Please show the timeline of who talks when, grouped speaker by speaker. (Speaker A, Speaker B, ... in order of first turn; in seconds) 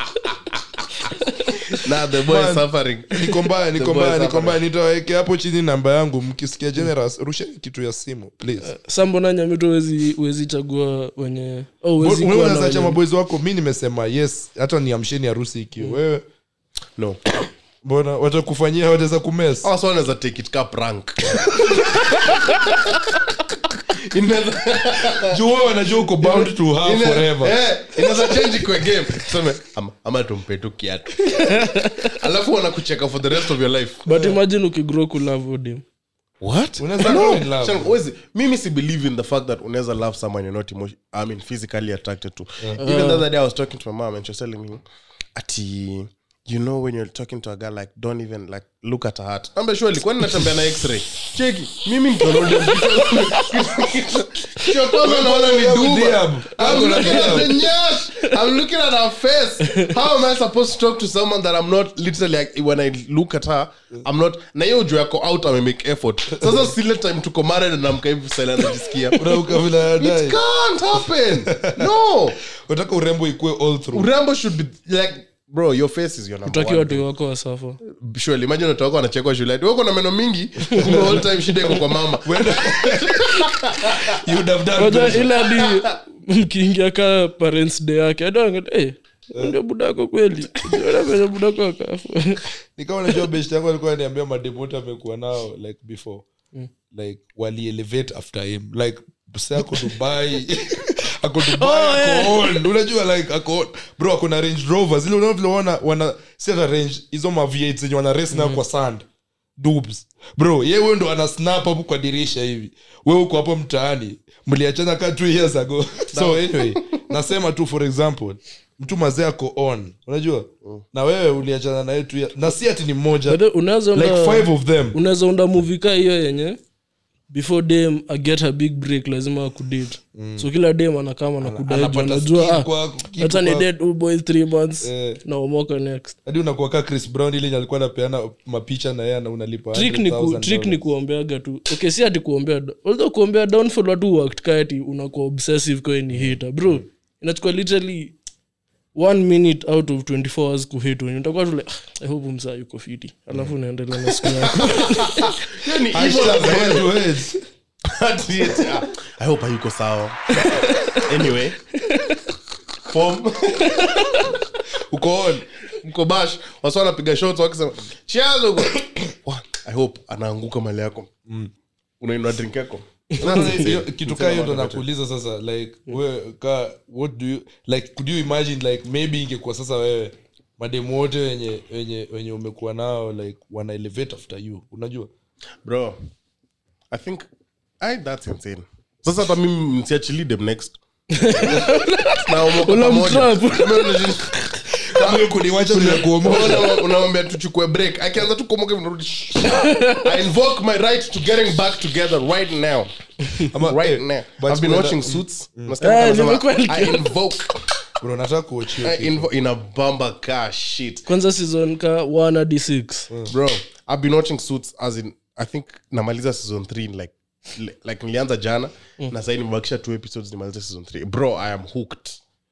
Speaker A: 1.7-4.6, 19.6-23.0, 24.0-25.4, 26.2-34.0, 36.4-44.8, 45.4-72.4, 73.9-77.0, 77.8-84.1, 85.5-85.9, 116.1-117.1, 154.6-157.0, 157.8-161.6, 162.9-164.3, 165.8-171.1, 172.0-174.8, 185.6-186.0, 186.9-187.3, 187.8-194.4, 194.9-202.9, 203.4-207.7, 208.8-211.1, 213.3-222.2
Speaker B: 2.3-8.7, 12.0-16.2, 17.8-19.7, 25.2-27.6, 36.8-37.9, 54.9-57.6, 66.4-66.7, 69.2-70.4, 71.3-71.9, 72.5-74.1, 80.8-85.3, 92.8-96.3, 96.9-109.0, 109.6-123.4, 123.9-125.0, 130.2-130.5, 131.4-133.7, 134.8-135.2, 136.3-140.8, 146.1-146.8, 155.9-157.4, 164.9-165.5, 171.3-171.5, 173.2-185.1, 194.8-196.8, 203.5-205.7, 208.0-209.3
Speaker C: 8.6-13.0, 31.2-32.1, 34.0-35.8, 42.8-43.2, 56.7-57.4, 59.7-59.9, 76.5-77.8, 80.7-81.0, 84.8-92.5, 101.5-102.6, 108.3-108.6, 123.3-126.6, 127.3-136.2, 139.7-148.2, 148.9-155.4, 161.8-162.2, 163.7-164.1, 173.2-173.6, 191.1-194.0, 199.4-200.1, 205.8-207.1, 211.1-213.1